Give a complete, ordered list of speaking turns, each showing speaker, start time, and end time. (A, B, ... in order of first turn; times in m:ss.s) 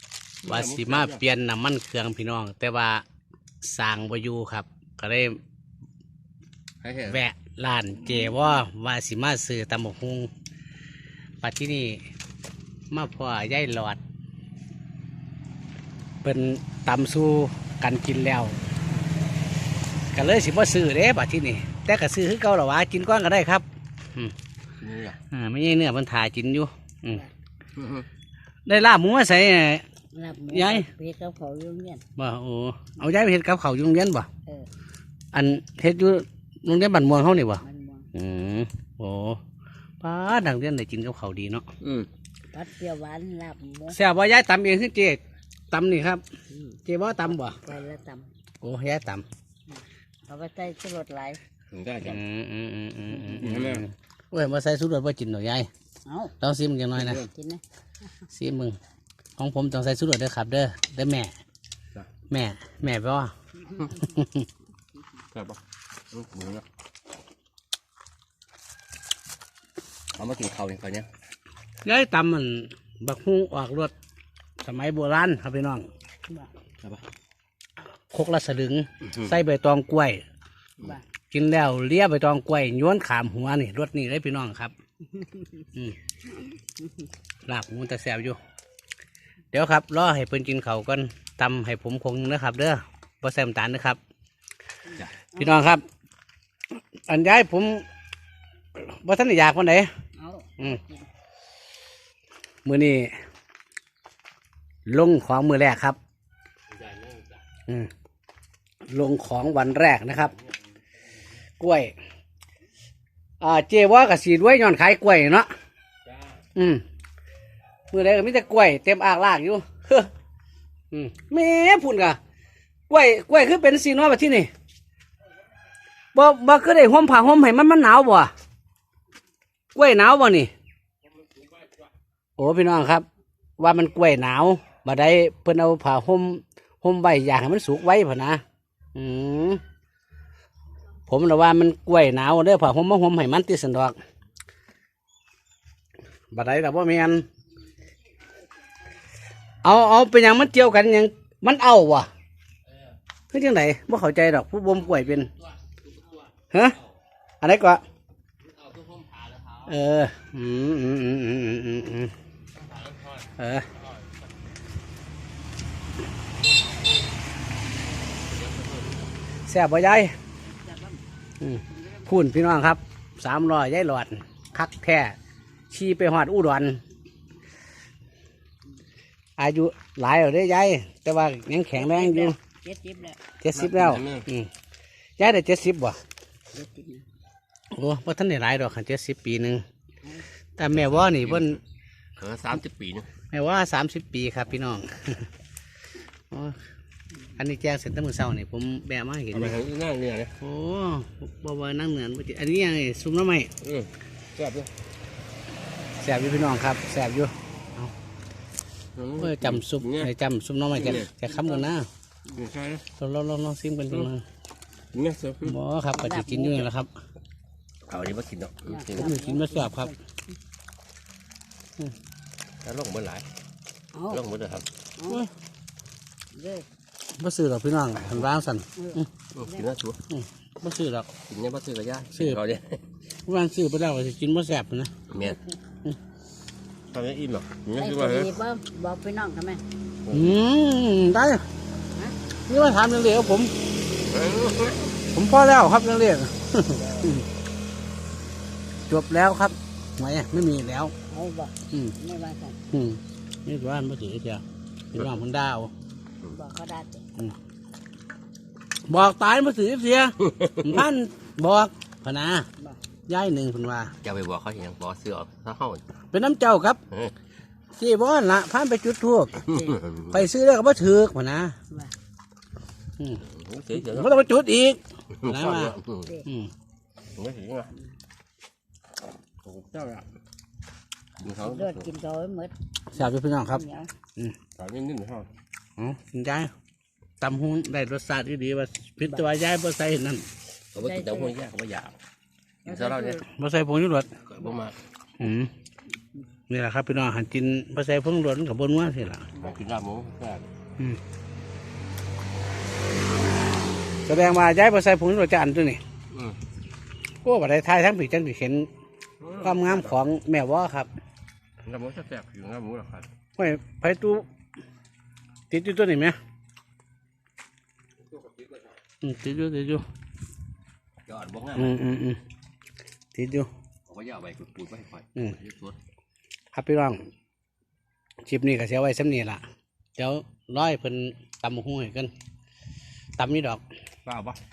0:00.4-0:01.2 A
0:00.4-0:03.0 B
0:03.6-0:05.4 B
0:06.8-0:07.2 A
0:07.1-0:10.3 B
0:11.4-0:12.0 B
0:12.9-0:14.0 B
0:16.2-0:18.6 B
0:20.1-0:24.3 B
0:24.8-0:25.2 A
0:25.3-0:27.2 B
0:27.8-0:28.1 A
0:28.6-0:29.8 B
0:30.1-0:32.0 C
0:30.5-0:30.9 B
0:32.2-0:34.3 B
0:35.3-0:37.6 B
0:37.6-0:38.1 C
0:38.1-0:39.4 B
0:40.0-0:41.7 B
0:41.8-0:42.1 A
0:42.5-0:44.0 C
0:43.9-0:46.2 B
0:46.8-0:47.6 B
0:47.4-0:48.3 C
0:48.6-0:49.2 B
0:49.7-0:51.4 C
0:51.7-0:52.2 A
0:52.0-0:55.7 B
0:53.1-0:53.5 C
0:53.3-0:53.8 A
0:56.0-0:56.3 C
0:56.4-0:57.2 B
0:57.0-0:57.3 A
0:57.3-0:57.6 C
0:58.3-0:58.8 B
0:59.4-1:01.3 B
1:02.3-1:03.3 B
1:03.8-1:04.4 B
1:05.3-1:06.6 A
1:10.1-1:11.1 A
1:11.8-1:13.9 B
1:14.6-1:15.9 B
1:18.1-1:20.2 B
1:19.0-1:19.3 A
1:21.3-1:24.7 B
1:27.4-1:28.4 B
1:29.5-1:34.0 B
1:35.4-1:35.8 B
1:37.1-1:37.8 B
1:38.8-1:39.9 B
1:40.2-1:41.1 C
1:42.6-1:43.1 B
1:44.8-1:46.0 B
1:46.8-1:47.2 A
1:48.9-1:50.3 B
1:51.6-1:51.9 B
1:53.4-1:55.5 B
1:56.5-1:56.8 B
1:57.9-2:00.1 B
2:00.9-2:02.2 B
2:02.9-2:04.5 B
2:06.1-2:08.3 B
2:09.7-2:10.5 B
2:12.4-2:13.0 B
2:13.6-2:18.4 B
2:18.9-2:19.6 B
2:21.1-2:24.0 B
2:26.3-2:27.2 B
2:29.6-2:32.1 B
2:33.3-2:35.3 B
2:36.5-2:36.8 B
2:37.4-2:37.8 B
2:39.6-2:42.1 B
2:43.4-2:43.7 B
2:49.5-2:50.1 B
2:50.5-2:51.0 C
2:51.4-2:55.2 B
2:55.7-2:56.8 B
2:59.4-3:02.4 B
3:01.7-3:03.2 C
3:03.4-3:04.5 B
3:03.5-3:04.3 A
3:05.2-3:06.0 B
3:06.5-3:07.0 C
3:07.7-3:09.6 B
3:10.6-3:11.6 B
3:10.7-3:11.6 A
3:12.2-3:13.1 A
3:13.3-3:15.3 B
3:16.3-3:16.6 B
3:17.4-3:19.6 B
3:19.3-3:20.3 A
3:20.4-3:23.5 B
3:23.6-3:24.7 A
3:26.0-3:27.9 B
3:29.0-3:30.1 A
3:29.2-3:31.9 B
3:30.7-3:31.1 A
3:31.2-3:31.7 C
3:32.3-3:32.8 A
3:33.0-3:34.2 B
3:34.9-3:35.6 A
3:35.4-3:36.9 B
3:35.9-3:36.7 C
3:37.9-3:39.2 A
3:38.6-3:40.0 C
3:39.0-3:39.9 B
3:42.6-3:43.2 A
3:43.9-3:44.2 C
3:44.1-3:44.6 A
3:45.0-3:45.3 C
3:46.3-3:46.6 C
3:47.1-3:49.1 B
3:48.0-3:48.3 A
3:48.8-3:49.6 C
3:49.3-3:50.0 A
3:50.1-3:51.1 B
3:51.2-3:52.8 A
3:52.1-3:52.4 B
3:53.2-3:54.9 B
3:55.1-3:55.4 A
3:56.9-3:58.3 A
3:57.8-3:59.6 C
4:00.0-4:00.4 A
4:00.1-4:01.4 B
4:02.5-4:03.5 B
4:04.1-4:04.8 A
4:05.1-4:07.2 B
4:08.9-4:10.9 B
4:11.1-4:12.6 C
4:12.7-4:15.7 B
4:16.3-4:17.0 C
4:18.8-4:22.5 B
4:20.2-4:20.8 A
4:23.1-4:23.9 B
4:24.0-4:25.8 A
4:26.1-4:26.8 B
4:27.7-4:31.6 B
4:29.4-4:30.2 A
4:33.2-4:34.2 A
4:33.8-4:36.5 B
4:35.1-4:36.1 A
4:37.2-4:37.7 A
4:39.4-4:40.1 A
4:41.2-4:41.9 A
4:41.4-4:43.9 C
4:42.9-4:43.6 B
4:44.6-4:45.3 A
4:45.8-4:46.5 B
4:47.2-4:50.3 B
4:49.0-4:49.2 C
4:50.7-4:52.0 A
4:50.8-4:51.3 C
4:52.6-4:53.2 A
4:52.6-4:53.3 C
4:53.3-4:54.1 B
4:54.2-4:54.8 A
4:55.2-4:55.5 B
4:56.5-4:59.3 B
4:59.4-5:00.5 A
5:04.0-5:05.8 B
5:06.1-5:06.4 A
5:07.2-5:08.7 B
5:09.2-5:10.0 A
5:09.4-5:10.9 B
5:11.6-5:13.1 A
5:13.4-5:14.2 B
5:15.5-5:16.2 B
5:19.0-5:19.8 B
5:21.0-5:21.8 A
5:21.6-5:22.2 B
5:23.1-5:23.5 B
5:23.9-5:25.8 A
5:26.5-5:27.0 B
5:28.2-5:29.4 B
5:30.0-5:32.1 B
5:33.2-5:33.6 B
5:34.0-5:34.4 A